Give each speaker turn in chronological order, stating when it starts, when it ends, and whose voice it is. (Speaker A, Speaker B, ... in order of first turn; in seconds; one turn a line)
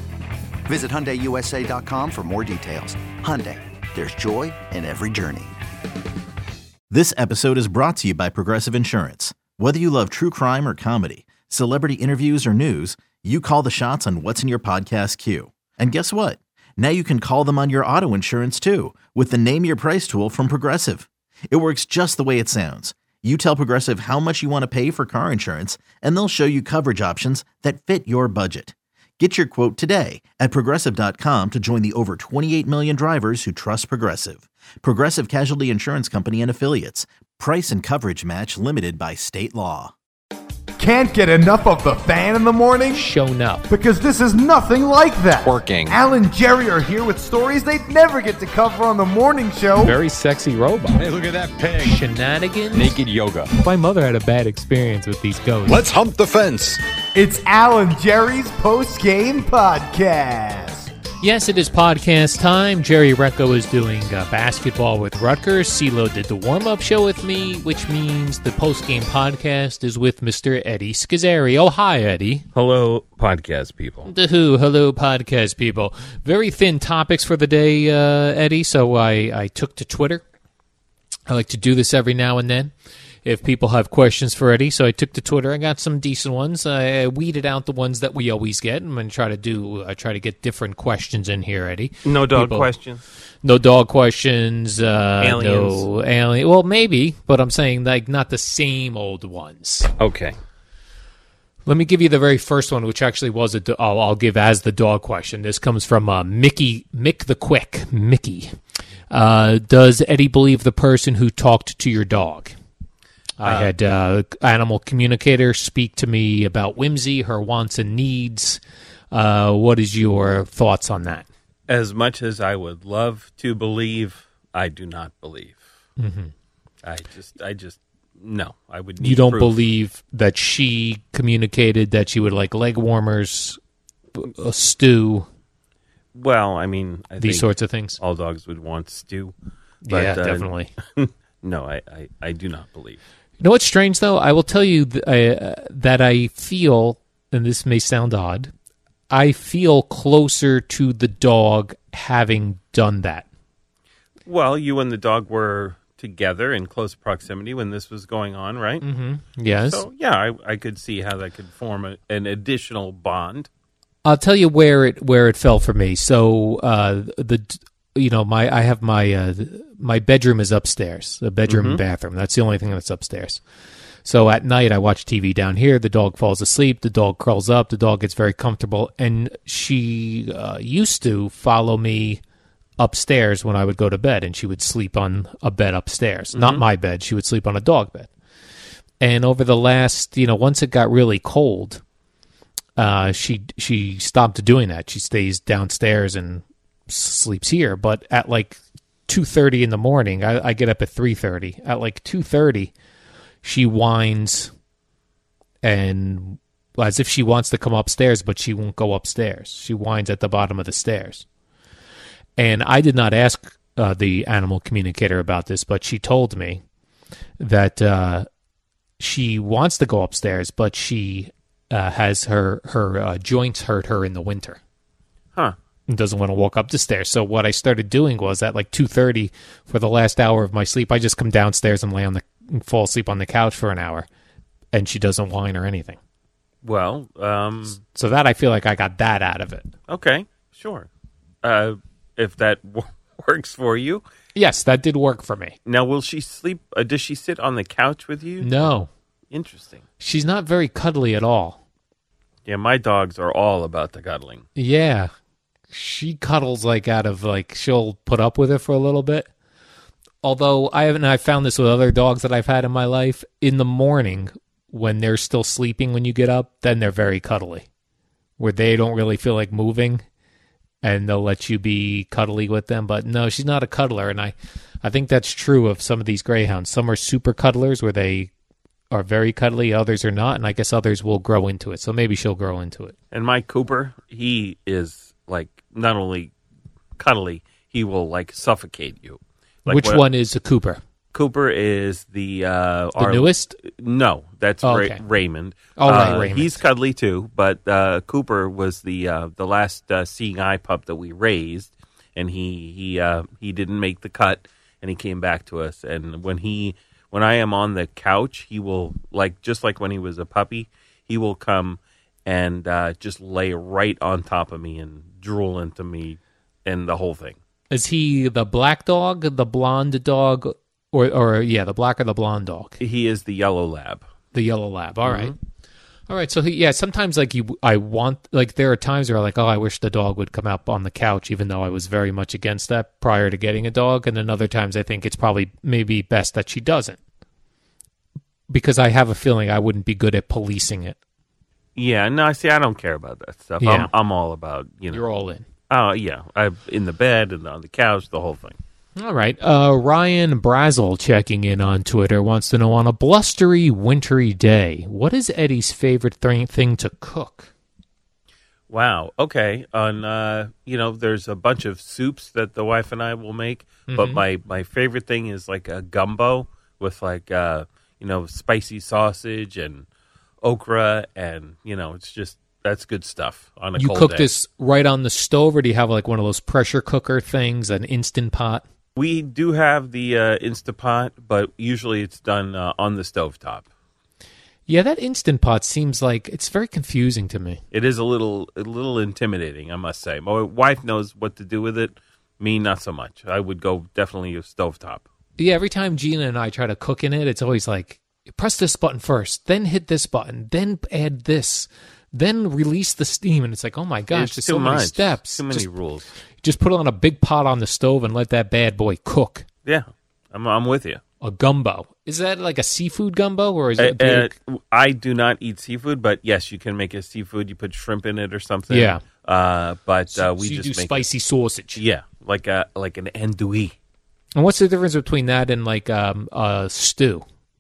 Speaker A: 0.7-5.6
Speaker B: 6.9-39.9
Speaker C: 40.8-43.0
Speaker D: 42.9-43.7
Speaker C: 43.7-49.9
Speaker E: 45.4-46.0
Speaker D: 49.8-51.0
Speaker E: 50.9-52.0
Speaker D: 51.8-53.0
Speaker E: 52.7-53.5
Speaker D: 53.5-55.9
Speaker E: 55.7-56.8
Speaker C: 57.1-60.8
Speaker A: 60.3-60.9
Speaker D: 61.2-72.5
Speaker F: 72.5-74.1
Speaker D: 74.0-80.2
Speaker D: 81.3-82.7
Speaker D: 83.2-92.7
Speaker F: 92.0-93.0
Speaker D: 93.4-99.9
Speaker F: 95.2-95.9
Speaker F: 100.0-100.4
Speaker D: 101.7-108.5
Speaker D: 109.1-112.5
Speaker D: 113.4-118.6
Speaker F: 113.4-113.7
Speaker D: 119.1-121.3
Speaker F: 121.7-125.6
Speaker D: 126.0-126.3
Speaker F: 126.8-129.5
Speaker D: 129.0-133.6
Speaker D: 134.2-135.3
Speaker F: 136.2-139.3
Speaker D: 137.2-138.0
Speaker D: 139.8-140.7
Speaker F: 139.9-143.0
Speaker D: 143.4-148.5
Speaker D: 149.1-153.3
Speaker F: 154.3-158.8
Speaker D: 158.8-159.8
Speaker F: 159.5-163.5
Speaker D: 164.1-173.4
Speaker F: 171.5-171.8
Speaker D: 174.1-182.2
Speaker D: 182.8-188.1
Speaker F: 186.3-186.6
Speaker D: 189.0-191.8
Speaker D: 192.8-202.7
Speaker D: 203.4-204.5
Speaker D: 205.6-211.3
Speaker D: 212.4-216.6
Speaker D: 217.4-218.3
Speaker D: 219.0-224.6
Speaker D: 225.9-234.1
Speaker D: 234.7-236.0
Speaker F: 236.6-237.8
Speaker D: 237.9-239.7
Speaker F: 239.9-240.9
Speaker F: 241.4-244.0
Speaker D: 244.3-245.6
Speaker F: 245.7-248.7
Speaker D: 248.4-248.9
Speaker F: 249.3-249.8
Speaker D: 250.0-251.6
Speaker F: 252.5-254.4
Speaker D: 254.6-255.1
Speaker D: 255.7-259.3
Speaker D: 260.2-267.7
Speaker D: 268.4-270.0
Speaker D: 270.8-278.3
Speaker D: 278.9-282.9
Speaker F: 283.1-286.3
Speaker F: 287.0-290.0
Speaker D: 289.7-290.8
Speaker F: 291.1-317.4
Speaker D: 293.0-293.6
Speaker D: 294.6-295.0
Speaker D: 295.8-296.6
Speaker D: 317.7-322.8
Speaker F: 322.8-324.0
Speaker D: 324.3-325.4
Speaker F: 325.1-325.3
Speaker D: 326.1-337.0
Speaker D: 338.5-341.0
Speaker F: 341.8-345.0
Speaker D: 343.6-343.9
Speaker D: 344.9-345.4
Speaker F: 345.7-348.6
Speaker D: 349.0-357.5
Speaker F: 358.7-369.9
Speaker D: 363.9-364.2
Speaker F: 370.4-374.3
Speaker D: 373.8-378.6
Speaker F: 379.0-383.6
Speaker D: 384.7-387.6
Speaker F: 387.7-395.0
Speaker D: 395.4-405.7
Speaker F: 404.1-406.1
Speaker D: 406.4-409.5
Speaker F: 409.7-411.0
Speaker D: 411.2-414.3
Speaker F: 413.8-421.1
Speaker D: 418.7-419.0
Speaker D: 420.1-421.8
Speaker F: 421.8-423.8
Speaker D: 424.4-427.2